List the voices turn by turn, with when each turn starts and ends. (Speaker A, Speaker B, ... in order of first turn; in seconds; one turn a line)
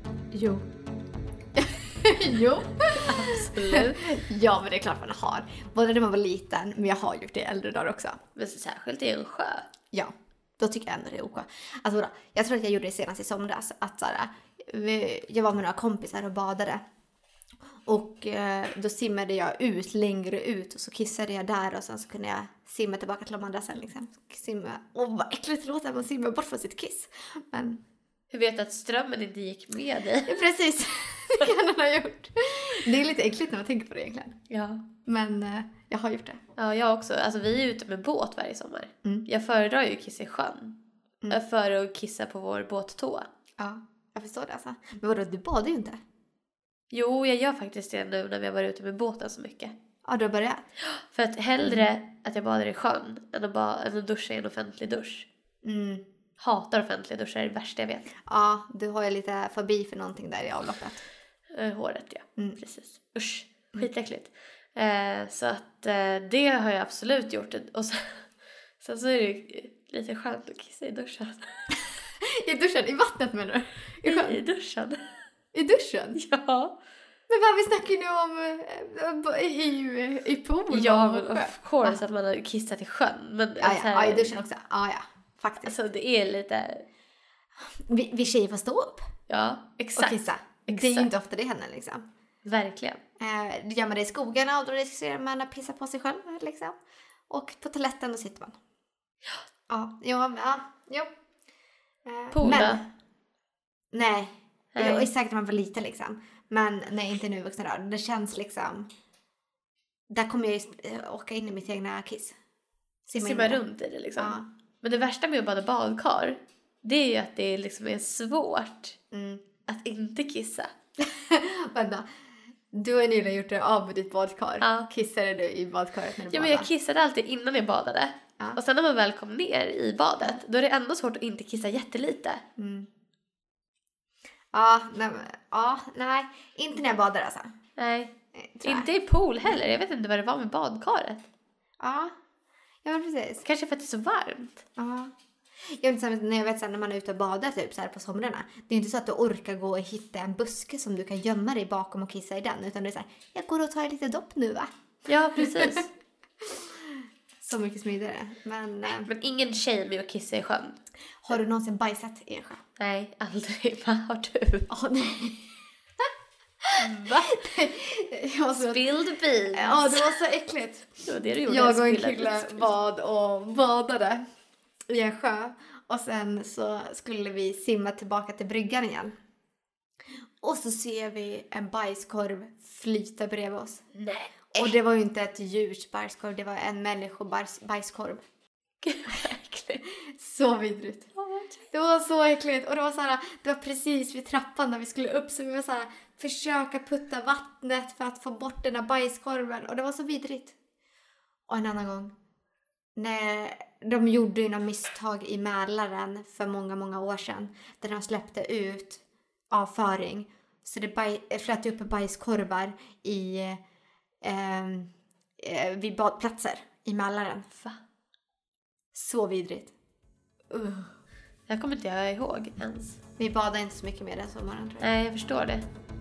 Speaker A: 0.3-0.6
Speaker A: 1.6-8.2
Speaker B: 2.9-4.0
Speaker B: 8.3-9.7
Speaker A: 9.9-16.8
Speaker A: 17.9-27.8
Speaker B: 28.3-30.4
Speaker A: 30.2-34.4
Speaker B: 34.5-34.8
Speaker A: 35.0-36.4
Speaker B: 36.6-40.8
Speaker B: 41.3-43.3
Speaker A: 43.6-46.0
Speaker B: 46.9-49.7
Speaker A: 50.0-50.6
Speaker B: 51.0-55.3
Speaker A: 51.6-51.9
Speaker A: 55.6-56.0
Speaker B: 56.4-58.1
Speaker A: 58.3-61.0
Speaker B: 61.5-68.3
Speaker B: 68.8-71.5
Speaker A: 72.4-74.4
Speaker B: 74.0-75.0
Speaker A: 75.5-76.2
Speaker B: 76.2-76.7
Speaker A: 77.3-82.0
Speaker B: 80.7-84.4
Speaker A: 83.6-85.8
Speaker B: 85.6-86.8
Speaker A: 87.9-89.0
Speaker B: 89.3-91.1
Speaker A: 90.0-92.0
Speaker B: 92.4-93.0
Speaker A: 93.2-96.7
Speaker A: 97.3-98.6
Speaker A: 99.7-101.1
Speaker A: 102.0-102.8
Speaker B: 102.3-102.8
Speaker A: 103.9-108.9
Speaker B: 104.7-105.1
Speaker A: 110.1-112.3
Speaker A: 113.0-113.6
Speaker B: 113.1-119.0
Speaker A: 114.2-114.5
Speaker A: 119.1-119.4
Speaker B: 119.7-120.7
Speaker A: 121.0-122.1
Speaker A: 122.7-126.7
Speaker B: 124.6-124.9
Speaker B: 126.3-132.4
Speaker A: 132.6-132.9
Speaker A: 134.5-137.5
Speaker B: 137.8-138.1
Speaker A: 138.3-138.9
Speaker B: 138.6-141.2
Speaker A: 141.8-142.1
Speaker A: 142.8-143.4
Speaker B: 143.4-144.6
Speaker A: 144.8-145.1
Speaker A: 145.8-154.7
Speaker B: 155.1-155.9
Speaker A: 155.3-155.8
Speaker A: 156.4-159.1
Speaker B: 158.9-160.8
Speaker A: 161.2-162.6
Speaker B: 162.8-164.7
Speaker A: 164.7-165.5
Speaker B: 166.8-167.4
Speaker A: 167.0-168.8
Speaker B: 168.6-170.1
Speaker A: 169.5-170.9
Speaker B: 171.0-172.7
Speaker A: 171.5-174.2
Speaker A: 174.9-179.1
Speaker A: 180.4-183.8
Speaker B: 183.9-184.7
Speaker A: 184.5-188.2
Speaker B: 188.8-189.8
Speaker A: 190.1-191.1
Speaker B: 191.2-191.6
Speaker A: 191.7-200.6
Speaker A: 201.5-202.1
Speaker A: 203.0-213.6
Speaker A: 214.2-217.5
Speaker A: 218.9-219.7
Speaker A: 220.5-220.9
Speaker B: 221.5-223.0
Speaker A: 223.2-224.9
Speaker B: 224.8-225.7